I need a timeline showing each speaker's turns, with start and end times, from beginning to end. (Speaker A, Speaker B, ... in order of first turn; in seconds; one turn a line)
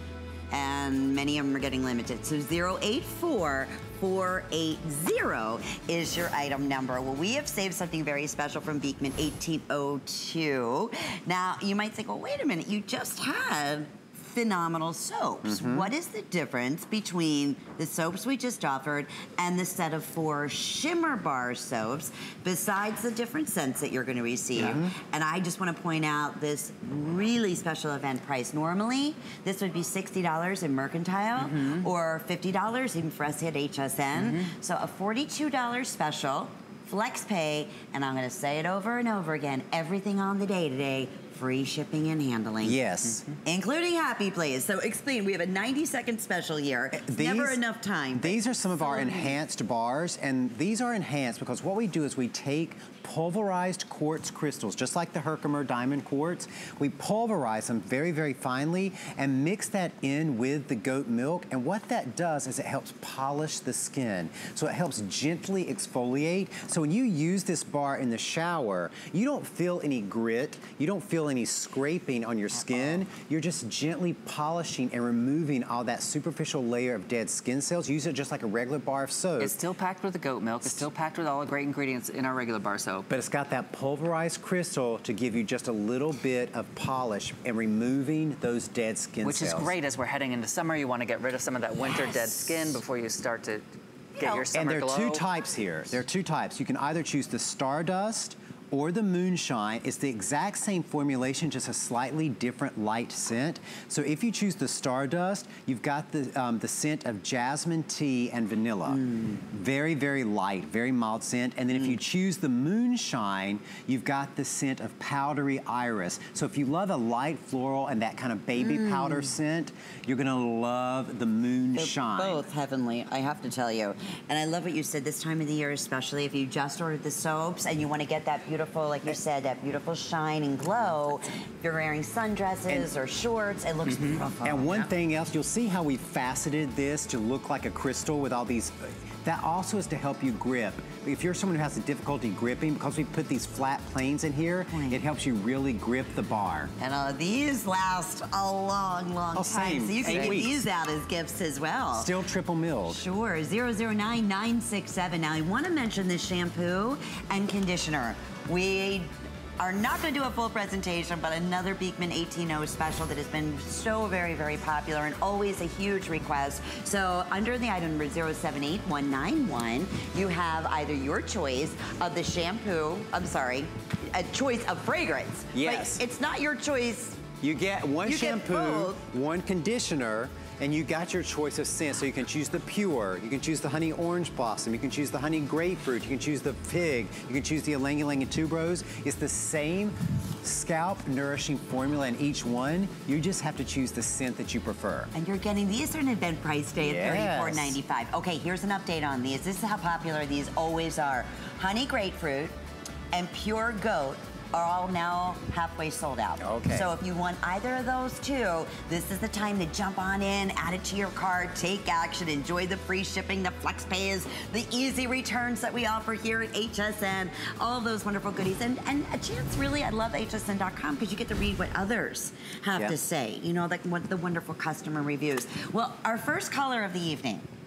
Speaker A: 0.5-42.8
Speaker B: 15.4-15.9
Speaker B: 24.6-24.9
Speaker C: 31.4-31.9
Speaker C: 34.2-34.5
Speaker B: 42.6-43.2
Speaker C: 43.1-43.3
Speaker A: 43.5-49.3
Speaker B: 46.9-47.6
Speaker B: 48.1-79.6
Speaker C: 79.4-83.1
Speaker B: 83.1-89.7
Speaker C: 89.2-93.7
Speaker A: 91.8-92.8
Speaker A: 94.2-94.5
Speaker C: 94.2-95.2
Speaker B: 94.5-122.4
Speaker A: 108.9-109.4
Speaker A: 118.6-119.3
Speaker A: 121.8-134.8
Speaker C: 133.9-134.8
Speaker B: 134.4-146.7
Speaker A: 144.7-145.0
Speaker A: 146.8-152.1
Speaker B: 149.3-150.7
Speaker C: 150.0-150.4
Speaker B: 151.9-153.0
Speaker A: 152.9-177.3
Speaker B: 175.5-176.0
Speaker B: 177.4-195.1
Speaker A: 178.0-179.0
Speaker A: 195.1-202.6
Speaker B: 196.8-197.8
Speaker A: 203.1-227.5
Speaker B: 206.4-206.9